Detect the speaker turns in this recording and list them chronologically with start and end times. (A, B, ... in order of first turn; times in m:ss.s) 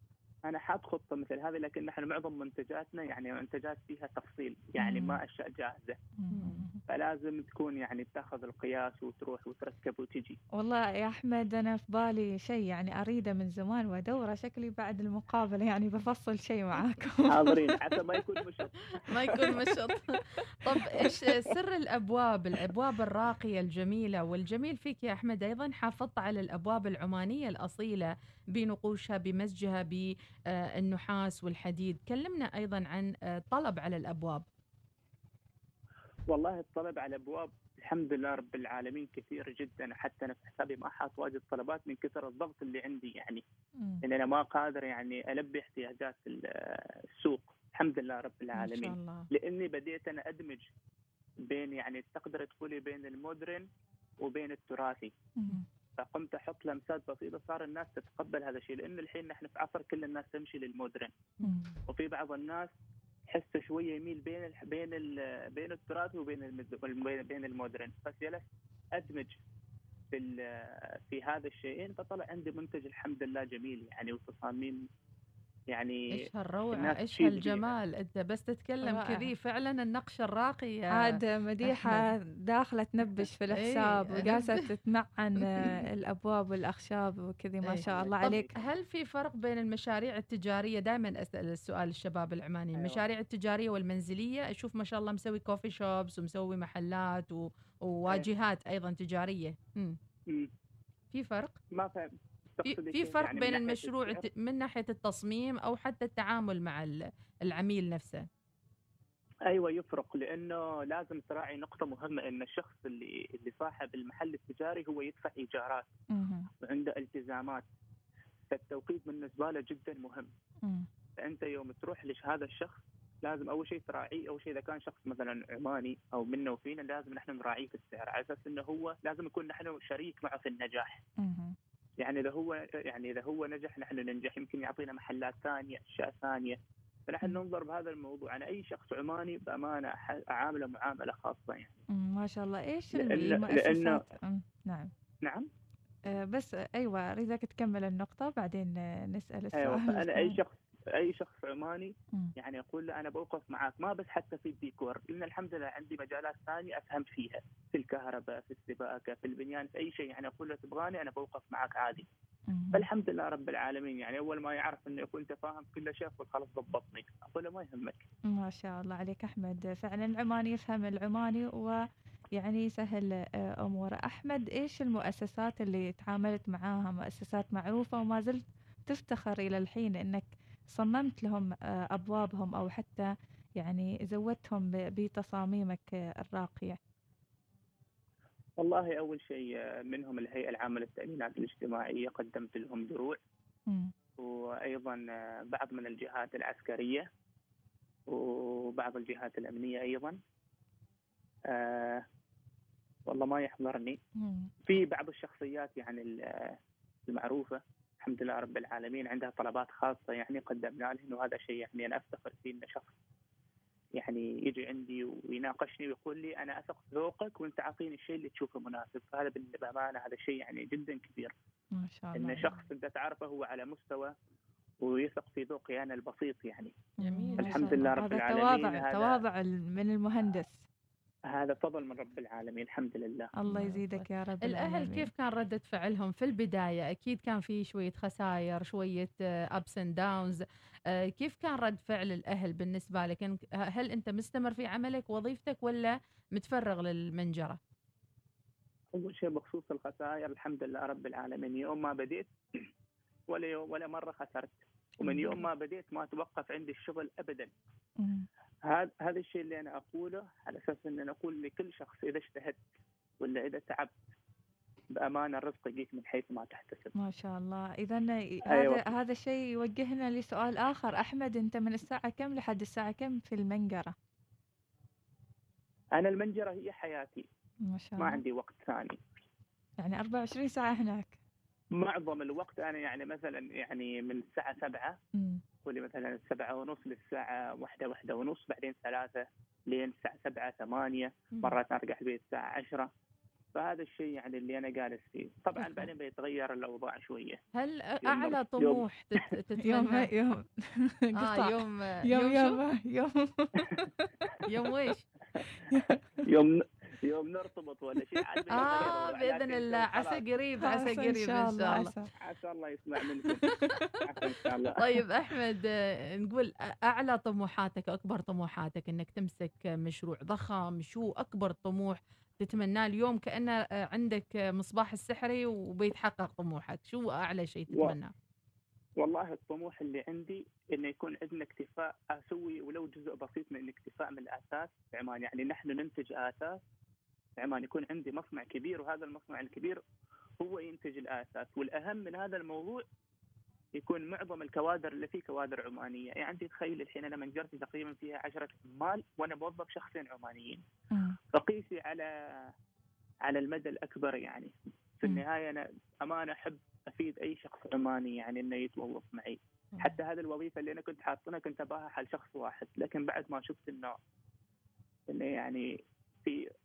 0:00.5-0:06.0 A
0:04.8-0:05.2 B
0:06.2-0:06.8 B
0:06.3-0:06.6 C
0:06.9-0:10.4 A
0:10.6-0:17.6 B
0:17.3-0:19.5 A
0:19.1-0:30.1 C
0:20.8-0:21.1 B
0:30.8-0:34.4 C
0:36.3-0:43.4 A
0:43.8-0:44.0 B
0:44.0-0:50.7 A
0:48.6-0:49.2 C
0:51.5-0:53.7 A
0:54.2-0:55.1 A
0:55.4-0:55.6 B
0:56.0-1:01.2 A
1:01.4-1:01.6 C
1:01.4-1:01.7 B
1:01.9-1:02.7 A
1:03.3-1:08.4 A
1:09.0-1:09.4 A
1:10.1-1:14.8 A
1:15.7-1:16.1 A
1:16.1-1:22.1 C
1:16.7-1:17.7 A
1:18.8-1:19.3 B
1:21.0-1:28.5 B
1:23.2-1:24.6 C
1:27.6-1:40.0 C
1:27.9-1:28.6 A
1:32.8-1:33.0 A
1:41.1-1:41.6 C
1:41.7-1:44.2 A
1:42.6-1:48.2 C
1:49.5-1:55.9 A
1:56.1-1:56.5 B
1:56.6-1:57.6 A
1:58.5-2:00.3 A
2:01.2-2:11.0 A
2:11.2-2:11.6 B
2:12.0-2:16.6 A
2:17.1-2:21.8 A
2:22.0-2:24.9 B
2:22.9-2:24.0 A
2:26.1-2:30.4 B
2:29.6-2:42.1 A
2:42.5-2:42.9 B
2:42.7-2:48.0 A
2:48.3-2:51.8 B
2:52.4-3:06.8 B
3:08.6-3:13.2 A
3:14.2-3:17.1 A
3:18.1-3:20.2 A
3:21.5-3:22.0 A
3:23.1-3:24.0 A
3:24.2-3:24.5 B
3:24.6-3:26.6 A
3:27.1-3:32.9 A
3:34.0-3:41.3 A
3:41.8-3:42.6 B
3:42.2-3:44.1 A
3:44.8-3:46.8 A
3:47.0-3:50.6 B
3:47.0-3:47.8 C
3:47.4-3:49.2 A
3:51.3-3:53.3 A
3:53.4-3:55.1 B
3:53.5-4:00.4 C
4:01.2-4:07.6 C
4:08.9-4:12.7 A
4:13.3-4:17.5 A
4:15.0-4:15.5 B
4:18.0-4:18.3 B
4:18.7-4:22.6 A
4:23.2-4:24.0 A
4:25.0-4:26.9 A
4:27.0-4:33.9 B
4:28.5-4:28.8 A
4:36.0-4:37.2 A
4:37.7-4:38.2 B
4:38.0-4:39.0 A
4:39.8-4:41.2 B
4:41.8-4:45.0 A
4:45.6-4:52.9 A
4:53.6-4:57.4 A
4:57.6-5:00.1 C
4:58.0-4:58.8 A
4:59.6-5:04.1 B
5:01.2-5:02.6 C
5:04.5-5:05.0 C
5:05.7-5:06.0 B
5:06.2-5:10.2 A
5:08.5-5:11.9 C
5:10.6-5:12.1 B
5:12.2-5:13.5 A
5:14.1-5:14.8 A
5:14.8-5:28.1 C
5:29.0-5:36.6 A
5:37.4-5:39.8 A
5:40.4-5:42.8 A
5:43.8-5:50.6 A
5:51.3-5:52.5 A
5:53.2-6:04.0 A
6:05.1-6:05.7 A